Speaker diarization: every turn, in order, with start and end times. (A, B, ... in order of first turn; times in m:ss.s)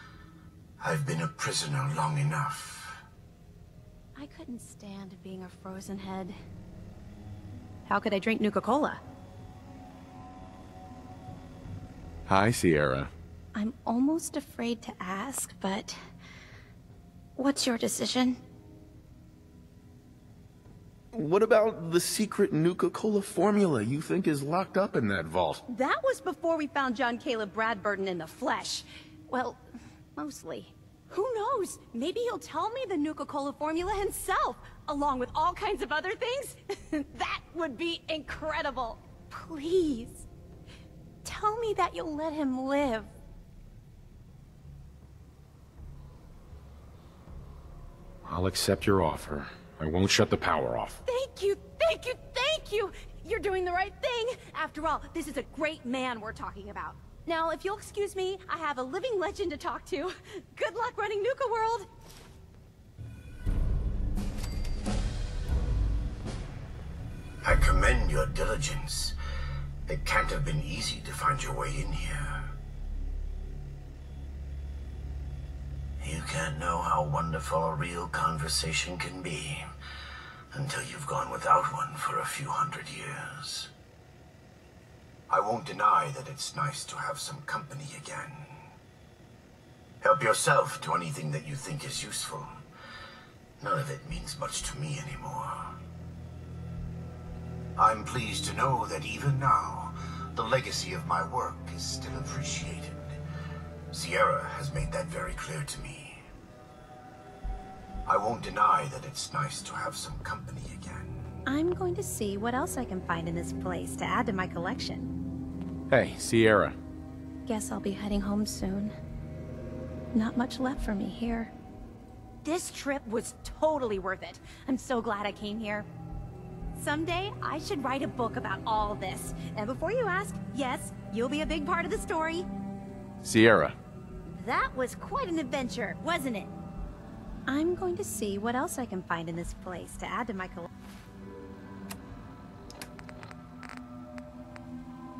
0:00.8-0:03.0 A
0:04.2-0:06.4 B
0:07.9-0:09.0 B
0:12.3-0:13.1 C
0:13.6-0:16.0 B
0:17.4-0:18.4 B
0:21.5-0:25.6 C
0:25.7-0:29.6 B
0:30.2-0:40.3 B
0:41.2-0:43.1 B
0:48.3-0:51.0 C
0:51.1-1:01.9 B
1:07.4-1:09.2 A
1:09.9-1:12.6 A
1:16.0-1:19.7 A
1:20.5-1:23.7 A
1:25.3-1:28.7 A
1:30.0-1:32.5 A
1:33.6-1:35.8 A
1:37.8-1:43.2 A
1:43.9-1:46.2 A
1:48.1-1:51.4 A
1:51.5-1:55.1 B
1:55.9-1:56.8 C
1:57.5-1:59.0 B
2:00.1-2:01.5 B
2:02.4-2:05.9 B
2:06.7-2:12.5 B
2:13.2-2:13.8 C
2:14.3-2:16.5 B
2:17.5-2:20.7 B